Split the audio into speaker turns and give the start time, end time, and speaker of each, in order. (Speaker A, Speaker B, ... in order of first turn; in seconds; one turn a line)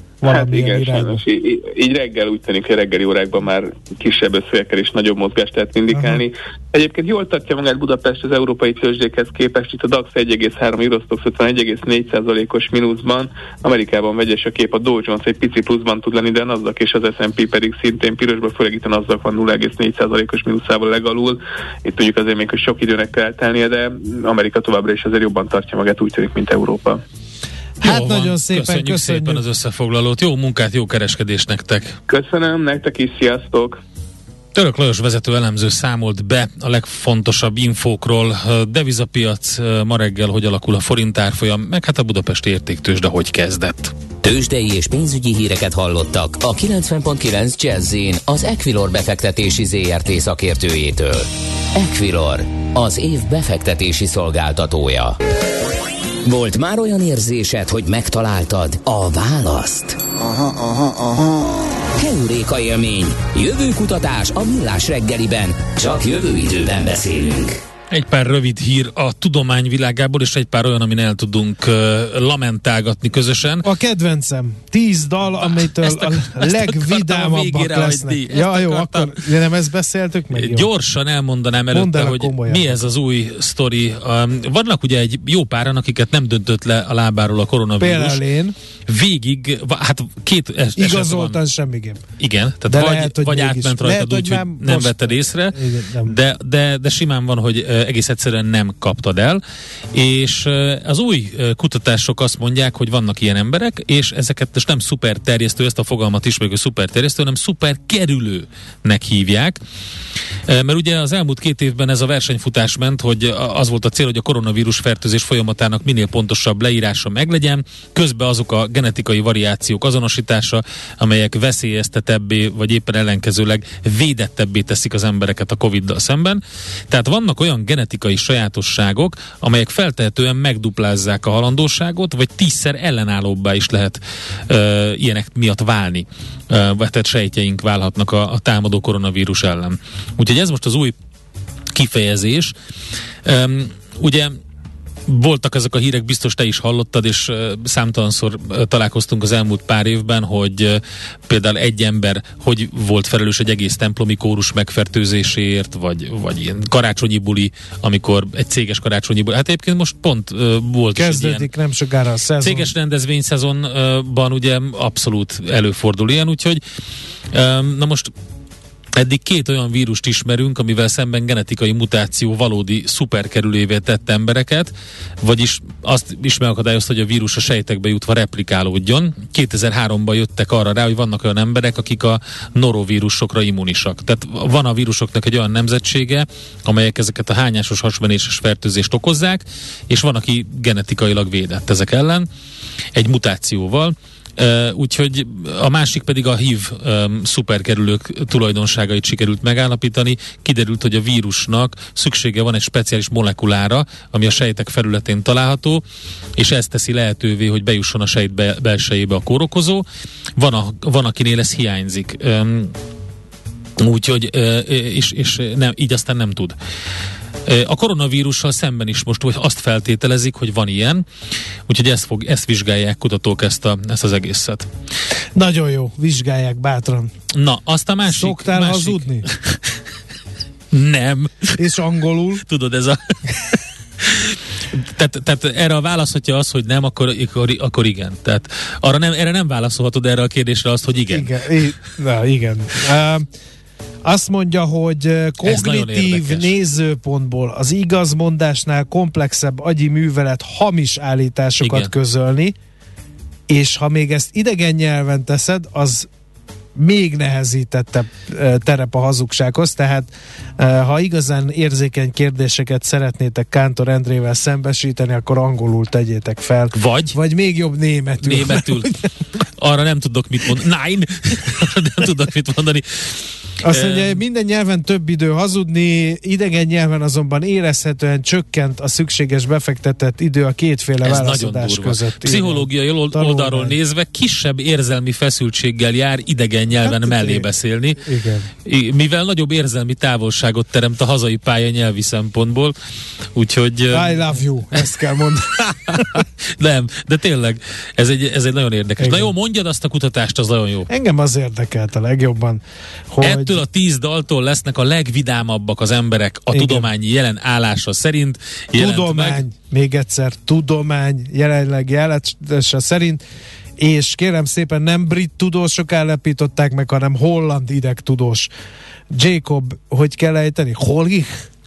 Speaker A: 0.2-1.2
Speaker B: 0.2-27.0
Speaker A: 5.9-6.2
Speaker A: 27.8-29.4
Speaker C: 27.8-31.9
Speaker B: 32.1-33.8
Speaker C: 34.5-43.9
Speaker D: 44.2-55.1
Speaker D: 56.2-60.0
Speaker D: 61.9-67.6
Speaker C: 67.9-73.7
Speaker A: 73.6-80.7
Speaker C: 75.4-79.2
Speaker C: 80.3-88.2
Speaker A: 81.7-82.8
Speaker A: 87.8-88.5
Speaker C: 88.9-91.4
Speaker A: 90.8-92.0
Speaker C: 92.2-99.4
Speaker A: 92.7-96.2
Speaker C: 99.9-109.6
Speaker C: 110.5-140.9
Speaker C: 141.7-142.5
Speaker C: 143.2-144.3
Speaker C: 145.1-161.5
Speaker A: 160.9-162.7
Speaker C: 162.4-166.6
Speaker C: 167.3-168.1
Speaker C: 169.0-192.3
Speaker C: 192.9-205.8
Speaker C: 206.4-209.8
Speaker C: 210.4-212.7
Speaker C: 213.8-216.5
Speaker C: 217.5-221.0
Speaker C: 221.7-224.7
Speaker A: 225.3-227.1
Speaker C: 227.3-229.7
Speaker A: 228.1-229.3
Speaker C: 230.7-231.6
Speaker A: 231.6-232.4
Speaker C: 232.4-241.3
Speaker A: 241.1-243.3
Speaker A: 244.0-252.5
Speaker C: 245.4-246.5
Speaker C: 251.6-251.9
Speaker A: 253.5-256.1
Speaker A: 256.8-269.0
Speaker C: 266.7-267.1
Speaker C: 268.2-274.2
Speaker A: 273.6-283.8
Speaker C: 281.0-288.0
Speaker A: 286.8-287.4
Speaker A: 288.0-288.5
Speaker C: 288.6-292.7
Speaker C: 293.3-294.2
Speaker A: 293.9-296.2
Speaker C: 295.6-300.9
Speaker A: 299.0-299.3
Speaker A: 300.9-303.6
Speaker C: 303.2-309.4
Speaker A: 306.5-306.9
Speaker A: 308.7-313.2
Speaker A: 313.8-318.5
Speaker A: 319.1-321.4